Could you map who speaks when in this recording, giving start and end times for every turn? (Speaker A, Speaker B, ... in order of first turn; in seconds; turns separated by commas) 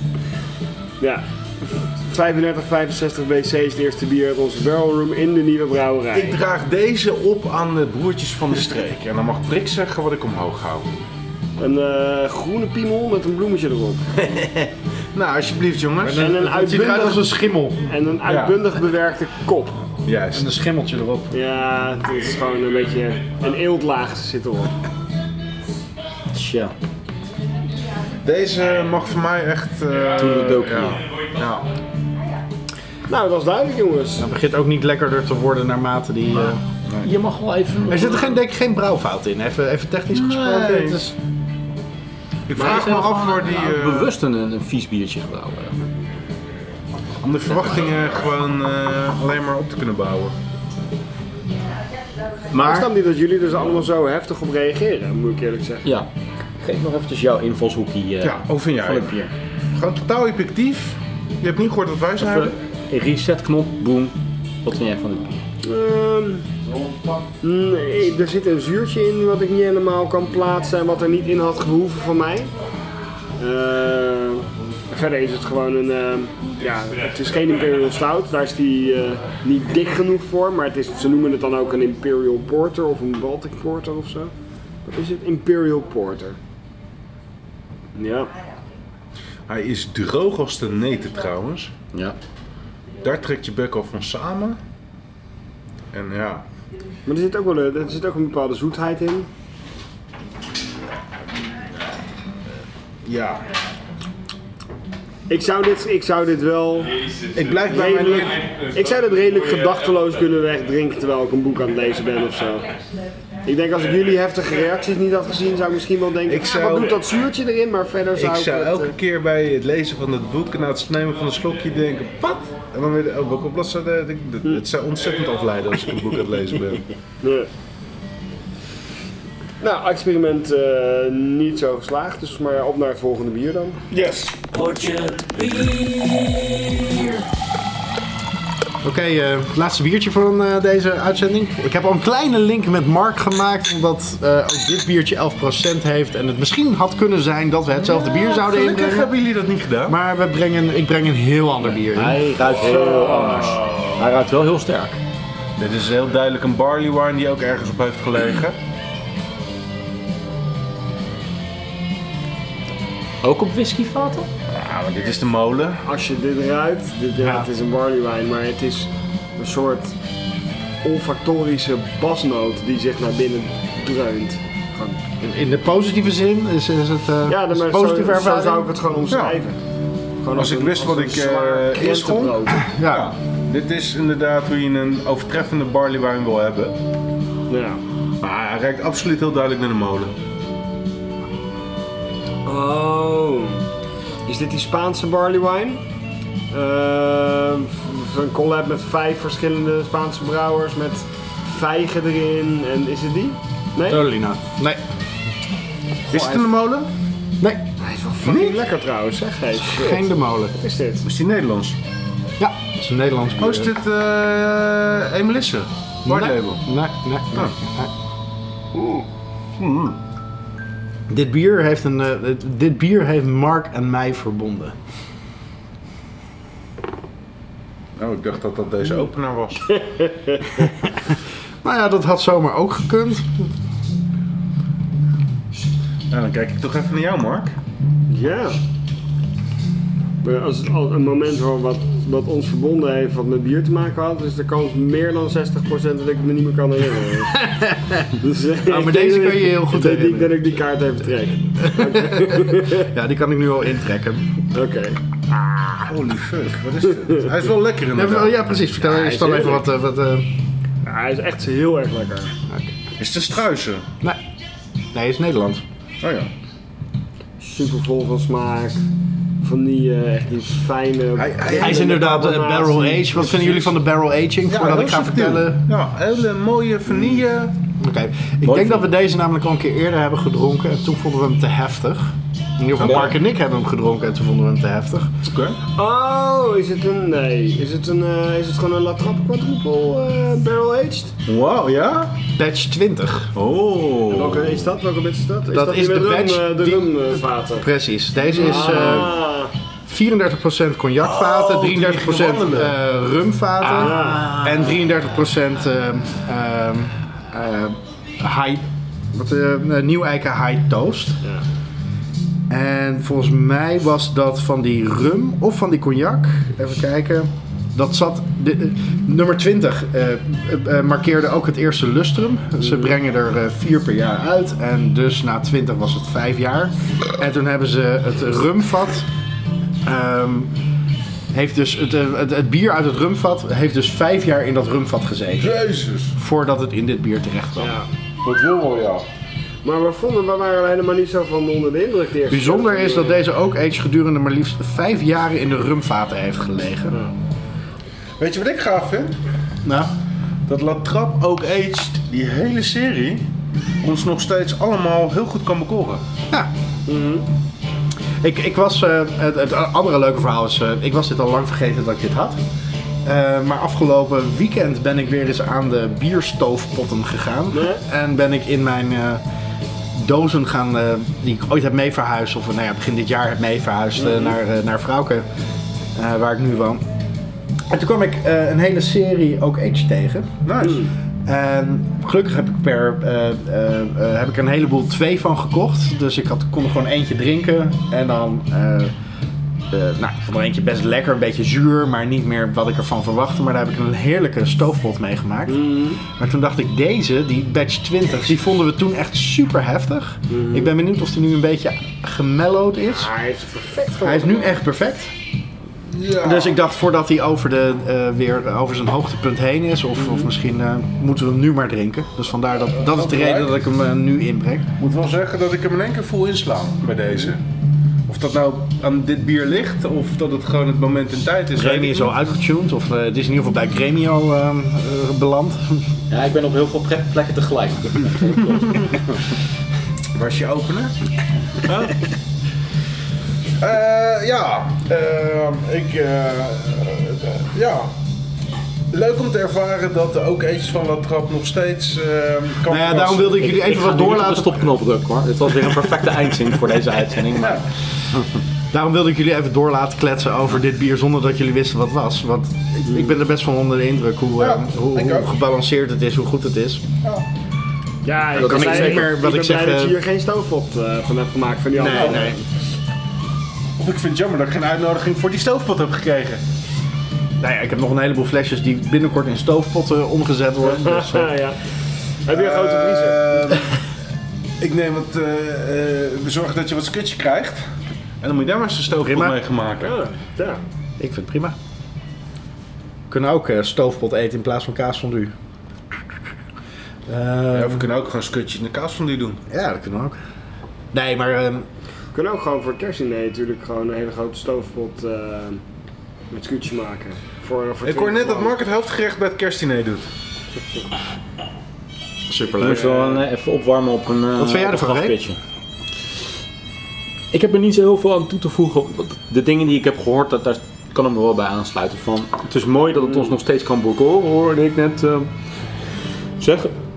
Speaker A: 1.0-1.2, Speaker A: 2.0-6.4, Speaker B: 6.1-10.9, Speaker A: 11.6-14.1, Speaker B: 14.2-16.3, Speaker C: 16.0-17.9, Speaker A: 16.2-17.3, Speaker A: 17.9-19.8, Speaker B: 18.3-18.6, Speaker B: 20.1-20.5, Speaker C: 20.3-21.3, Speaker A: 21.3-24.7, Speaker D: 26.3-26.7, Speaker B: 28.2-31.7, Speaker D: 30.1-31.0, Speaker A: 33.1-34.3, Speaker C: 34.2-36.6, Speaker B: 36.4-37.1, Speaker D: 37.0-38.4, Speaker C: 37.9-41.2, Speaker B: 40.1-41.0, Speaker B: 42.5-44.1, Speaker D: 42.5-45.8, Speaker B: 47.2-50.4, Speaker D: 52.5-52.9, Speaker A: 52.6-55.9, Speaker D: 56.6-59.3, Speaker B: 58.2-59.1, Speaker B: 59.8-62.5, Speaker D: 62.2-65.4, Speaker A: 65.6-66.5, Speaker A: 67.4-72.5, Speaker A: 73.4-84.3, Speaker A: 84.8-86.4, Speaker A: 88.0-88.3, Speaker B: 89.5-91.7, Speaker B: 93.0-94.6, Speaker B: 95.9-96.5, Speaker A: 97.1-99.3, Speaker B: 103.0-103.5, Speaker A: 105.3-107.0, Speaker B: 107.3-108.7, Speaker A: 107.7-112.7, Speaker A: 113.5-118.9, Speaker B: 116.3-117.0, Speaker B: 118.2-126.8, Speaker A: 127.2-127.5, Speaker A: 129.6-133.8, Speaker D: 134.3-137.2, Speaker C: 138.8-149.1, Speaker B: 147.9-150.0, Speaker C: 149.9-152.3, Speaker D: 151.8-155.0, Speaker A: 152.5-153.9, Speaker B: 155.6-158.6, Speaker D: 163.2-164.3, Speaker B: 164.5-165.8, Speaker A: 165.8-169.9, Speaker C: 167.2-167.5, Speaker A: 170.8-175.0, Speaker C: 175.2-178.7, Speaker A: 177.3-179.6, Speaker B: 179.1-179.4, Speaker A: 180.2-182.6, Speaker B: 180.3-186.8, Speaker C: 182.5-183.1, Speaker A: 187.5-187.8, Speaker B: 188.2-190.1, Speaker A: 192.4-193.6, Speaker A: 194.3-195.8, Speaker A: 196.5-204.0, Speaker C: 203.9-204.8, Speaker B: 206.1-206.9, Speaker C: 207.4-207.7, Speaker A: 207.8-211.1, Speaker B: 208.2-208.6, Speaker C: 209.6-210.6, Speaker B: 211.0-211.8, Speaker C: 212.4-213.7, Speaker B: 213.4-216.6, Speaker C: 216.1-217.9, Speaker A: 218.8-219.1, Speaker B: 219.6-220.0, Speaker C: 221.1-224.8, Speaker B: 228.0-229.8, Speaker A: 229.7-230.7, Speaker C: 231.6-233.5, Speaker B: 236.1-237.6, Speaker A: 238.1-238.6, Speaker A: 240.2-247.5, Speaker C: 247.3-250.5, Speaker A: 248.2-252.9, Speaker C: 251.6-254.4, Speaker A: 254.5-256.0, Speaker B: 255.9-258.3, Speaker C: 257.9-260.3, Speaker A: 258.8-259.6, Speaker A: 260.8-262.3, Speaker B: 263.0-263.9, Speaker C: 264.9-265.6, Speaker B: 266.0-266.3, Speaker A: 267.4-268.8, Speaker A: 269.4-273.7, Speaker B: 271.2-272.0, Speaker C: 271.6-275.7, Speaker B: 274.5-277.6, Speaker C: 277.8-285.1, Speaker B: 278.4-278.9, Speaker B: 282.8-283.2, Speaker B: 285.2-285.6, Speaker A: 285.8-291.1, Speaker B: 291.3-292.2, Speaker C: 292.4-293.3, Speaker B: 293.4-294.7, Speaker A: 294.1-297.7, Speaker C: 295.5-299.2, Speaker A: 298.3-299.5, Speaker B: 298.3-299.0, Speaker C: 299.9-311.2, Speaker B: 301.0-302.8, Speaker D: 303.7-304.8, Speaker A: 303.8-304.4, Speaker C: 312.5-329.1, Speaker C: 329.9-330.5, Speaker C: 331.3-335.6, Speaker B: 335.4-336.1, Speaker C: 336.2-337.8, Speaker A: 337.6-337.9, Speaker B: 338.2-339.1, Speaker A: 339.6-343.2, Speaker C: 342.3-347.0, Speaker B: 348.2-349.2, Speaker C: 349.6-349.9, Speaker B: 350.5-353.3, Speaker B: 353.8-356.0, Speaker A: 356.9-357.3, Speaker C: 358.2-362.4, Speaker C: 363.0-369.2, Speaker A: 367.5-367.8, Speaker C: 369.9-375.2, Speaker A: 374.0-374.4, Speaker C: 375.9-376.8, Speaker C: 377.7-380.3, Speaker B: 380.4-380.9, Speaker A: 380.6-380.9, Speaker C: 381.2-388.9, Speaker C: 389.7-403.1, Speaker A: 395.5-396.0, Speaker A: 400.3-400.7, Speaker A: 402.9-404.6, Speaker C: 404.0-405.1, Speaker B: 405.9-406.6, Speaker C: 406.2-414.7, Speaker A: 410.0-410.3, Speaker B: 412.8-413.5, Speaker B: 414.8-417.4, Speaker B: 418.1-422.1, Speaker C: 421.5-425.9, Speaker D: 426.1-429.2, Speaker B: 430.1-430.9, Speaker B: 431.6-432.0, Speaker B: 433.6-437.9, Speaker B: 438.9-443.6, Speaker C: 442.7-444.7, Speaker D: 443.3-447.7, Speaker B: 447.3-447.6, Speaker C: 448.7-456.8, Speaker A: 452.9-453.1, Speaker B: 454.4-455.3, Speaker A: 458.0-462.4, Speaker C: 458.3-460.0, Speaker C: 461.8-462.4, Speaker B: 461.9-462.3, Speaker B: 463.8-466.4, Speaker C: 467.4-471.4, Speaker A: 470.6-471.6, Speaker A: 472.2-473.5, Speaker B: 472.3-473.7, Speaker B: 474.6-477.7, Speaker B: 478.2-479.9, Speaker C: 479.0-479.4, Speaker A: 479.8-480.6, Speaker C: 481.0-481.6, Speaker C: 483.1-485.3, Speaker C: 487.1-487.9, Speaker B: 487.5-489.4, Speaker C: 489.5-490.2, Speaker C: 490.9-491.7, Speaker A: 492.1-495.6, Speaker A: 496.3-498.6, Speaker B: 497.9-500.1, Speaker C: 502.3-502.9, Speaker D: 502.5-505.4, Speaker A: 502.6-503.2, Speaker C: 504.4-505.2, Speaker D: 507.3-515.3, Speaker D: 516.4-516.8